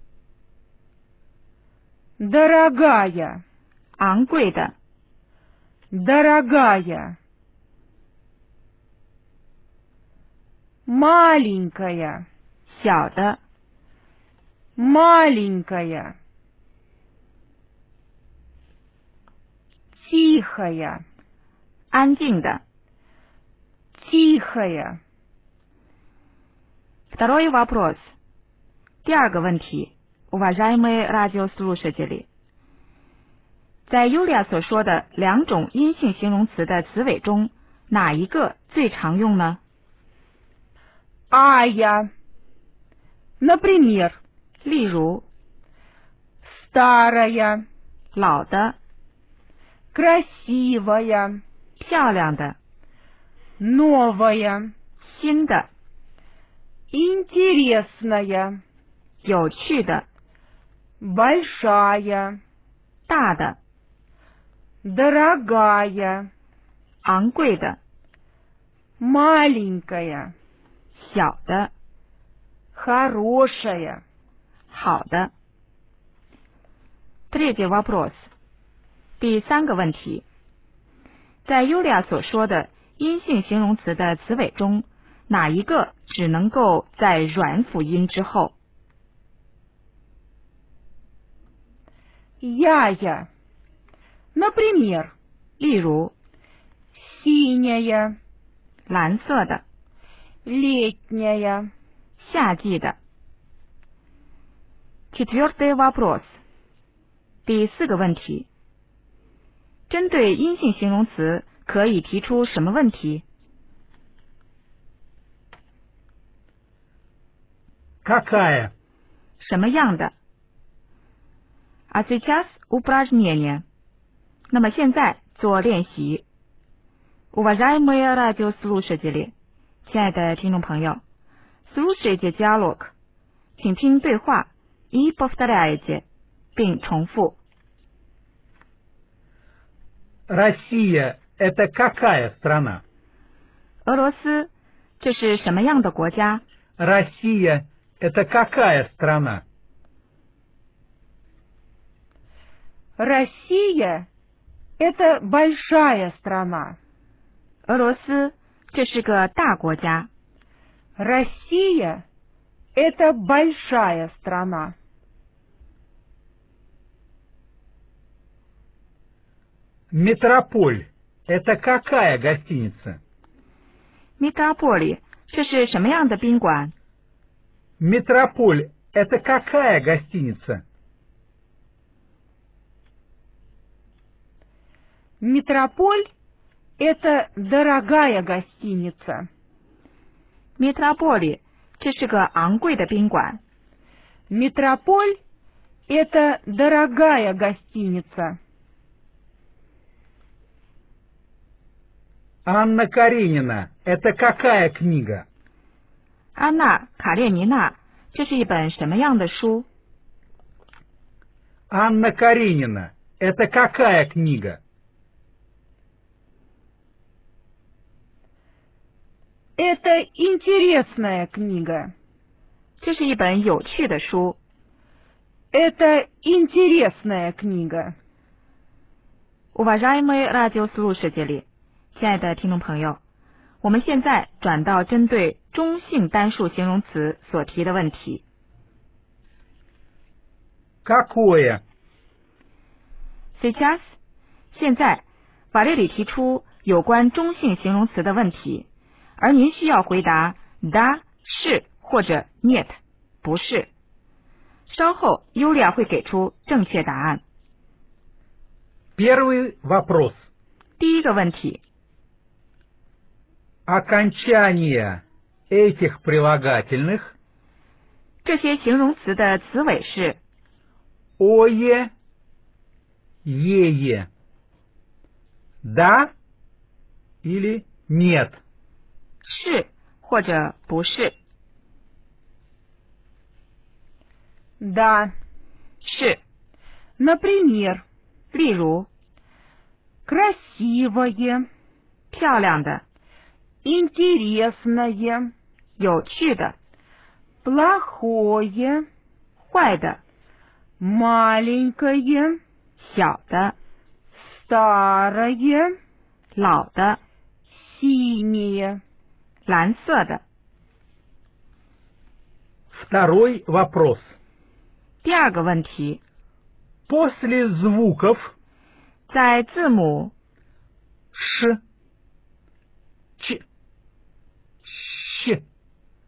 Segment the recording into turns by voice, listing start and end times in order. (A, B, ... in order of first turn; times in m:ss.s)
0:02.2-0:03.4 A
0:04.0-0:04.7 B
0:05.9-0:07.2 A
0:10.9-0:12.3 A
0:12.7-0:13.4 B
0:14.8-0:16.2 A
0:20.0-0:21.0 A
0:21.9-0:22.6 B
0:24.0-0:25.0 A
0:27.1-0:28.1 B
0:29.0-0:32.3 B
0:33.9-0:39.6 B
0:41.3-0:42.1 A
0:43.4-0:44.2 A
0:44.6-0:45.2 B
0:46.5-0:47.6 A
0:48.1-0:48.8 B
0:49.9-0:51.4 A
0:51.8-0:52.6 B
0:53.6-0:54.7 A
0:55.0-0:55.7 B
0:56.9-0:58.6 A
0:59.2-1:00.1 B
1:01.0-1:02.4 A
1:03.1-1:03.6 B
1:04.8-1:06.3 A
1:07.0-1:07.8 B
1:09.0-1:10.3 A
1:11.0-1:11.7 B
1:12.8-1:14.0 A
1:14.7-1:15.3 B
1:17.3-1:18.3 B
1:19.2-1:20.2 B
1:21.4-1:28.6 B
1:32.4-1:33.3 A
1:34.4-1:35.1 A
1:35.6-1:36.1 B
1:37.0-1:38.2 A
1:38.9-1:39.6 B
1:40.4-1:41.7 A
1:42.2-1:43.0 B
1:45.1-1:46.4 B
1:47.4-1:48.5 B
1:49.9-1:53.2 B
1:58.0-1:58.7 C
1:59.4-2:00.1 B
2:01.9-2:03.6 B
2:04.5-2:06.2 B
2:07.3-2:09.3 B
2:09.9-2:11.0 B
2:11.7-2:12.9 B
2:13.6-2:17.4 B
2:20.3-2:22.8 C
2:23.8-2:26.4 B
2:26.8-2:29.4 C
2:33.0-2:34.1 A
2:34.8-2:36.8 A
2:37.7-2:40.1 B
2:41.0-2:42.0 A
2:42.8-2:44.7 A
2:49.9-2:53.0 C
2:54.2-2:56.7 B
2:57.8-3:00.6 C
3:05.2-3:06.0 A
3:06.8-3:09.2 A
3:10.6-3:13.4 B
3:14.3-3:15.2 A
3:15.9-3:18.4 A
3:22.5-3:25.2 C
3:26.4-3:29.7 B
3:31.7-3:34.6 C
3:39.6-3:41.9 A
3:42.8-3:44.4 B
3:45.5-3:47.9 A
3:49.5-3:53.0 B
3:53.6-3:58.2 B
4:00.8-4:01.6 C
4:03.4-4:03.9 B
4:04.5-4:13.7 B
4:14.7-4:17.2 B
4:19.0-4:20.2 C
4:20.8-4:21.6 B
4:23.7-4:27.1 C
4:28.2-4:30.2 B
4:31.2-4:31.9 C
4:33.2-4:34.1 C
4:35.6-4:36.1 C
4:37.2-4:38.4 C
4:39.2-4:41.2 B
4:44.6-4:45.1 A
4:45.8-4:46.2 B
4:47.0-4:47.8 A
4:48.3-4:48.9 B
4:50.1-4:51.5 A
4:52.1-4:52.8 B
4:53.6-4:55.3 A
4:55.8-4:56.6 B
4:57.4-4:58.8 A
4:59.5-5:00.0 B
5:00.8-5:02.4 A
5:02.8-5:03.6 B
5:04.2-5:05.7 A
5:06.4-5:07.0 B
5:07.5-5:08.8 A
5:09.5-5:10.2 B
5:12.7-5:14.1 C
5:15.0-5:16.0 B
5:16.9-5:18.3 C
5:19.1-5:20.1 B
5:21.1-5:21.6 C
5:24.6-5:25.4 C